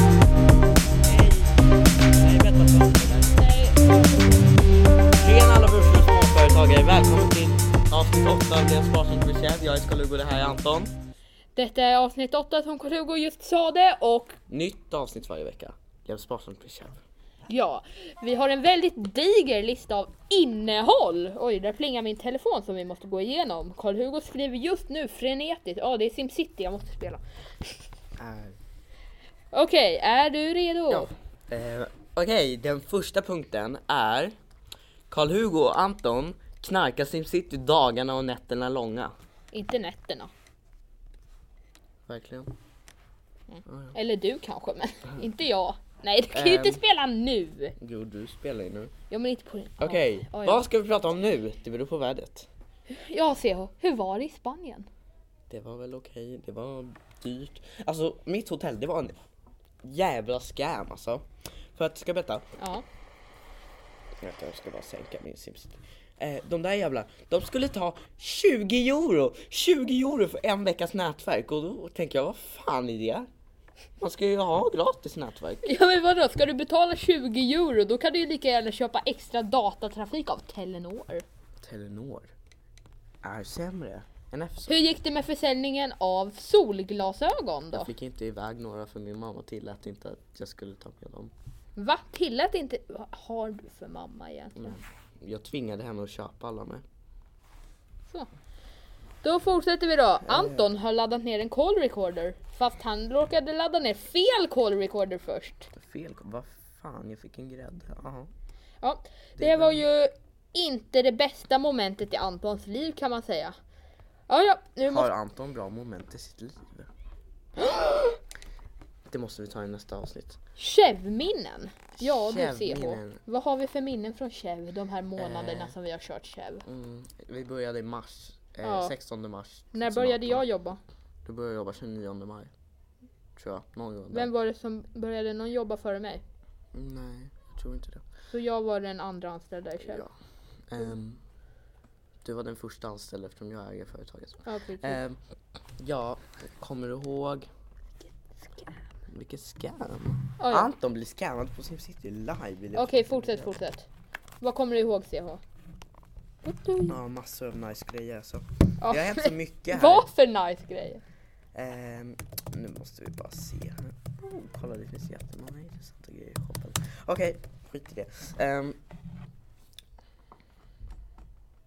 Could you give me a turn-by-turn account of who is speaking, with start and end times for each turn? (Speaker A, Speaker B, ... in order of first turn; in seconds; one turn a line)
Speaker A: 1.0-3.4
Speaker B: 3.3-4.5
Speaker A: 5.2-11.0
Speaker B: 11.5-14.4
Speaker A: 14.5-17.0
Speaker B: 17.5-27.8
Speaker A: 28.2-28.6
Speaker B: 29.5-31.1
Speaker A: 30.9-34.4
Speaker A: 35.1-39.1
Speaker B: 39.5-40.3
Speaker A: 42.1-42.5
Speaker B: 43.5-47.8
Speaker A: 43.7-43.9
Speaker A: 46.3-46.8
Speaker A: 47.8-48.9
Speaker B: 49.1-50.6
Speaker A: 49.8-52.5
Speaker B: 52.9-54.9
Speaker A: 55.5-59.2
Speaker A: 59.8-62.5
Speaker B: 62.6-62.8
Speaker A: 64.2-73.3
Speaker A: 74.0-75.7
Speaker B: 75.6-81.2
Speaker A: 81.6-82.3
Speaker A: 83.2-84.8
Speaker B: 84.7-87.9
Speaker A: 87.7-91.3
Speaker B: 91.8-94.8
Speaker A: 94.5-96.8
Speaker B: 99.2-105.7
Speaker A: 100.2-100.7
Speaker A: 105.7-108.3
Speaker B: 108.8-113.6
Speaker A: 109.4-109.9
Speaker B: 114.3-115.1
Speaker A: 114.8-116.9
Speaker A: 119.1-120.4
Speaker B: 120.5-126.6
Speaker A: 122.0-123.2
Speaker A: 125.2-125.8
Speaker A: 126.6-130.4
Speaker B: 128.6-128.9
Speaker B: 129.7-130.8
Speaker A: 131.2-132.5
Speaker A: 133.3-134.3
Speaker B: 134.1-136.2
Speaker A: 136.7-138.1
Speaker B: 138.3-140.1
Speaker A: 139.8-140.1
Speaker A: 140.7-141.2
Speaker A: 142.2-145.2
Speaker B: 144.4-145.0
Speaker A: 145.8-147.5
Speaker B: 148.0-148.8
Speaker A: 149.1-153.6
Speaker B: 150.4-150.7
Speaker B: 152.7-153.9
Speaker B: 154.4-155.4
Speaker B: 156.4-156.9
Speaker A: 156.9-160.1
Speaker B: 158.8-161.0
Speaker A: 161.5-168.8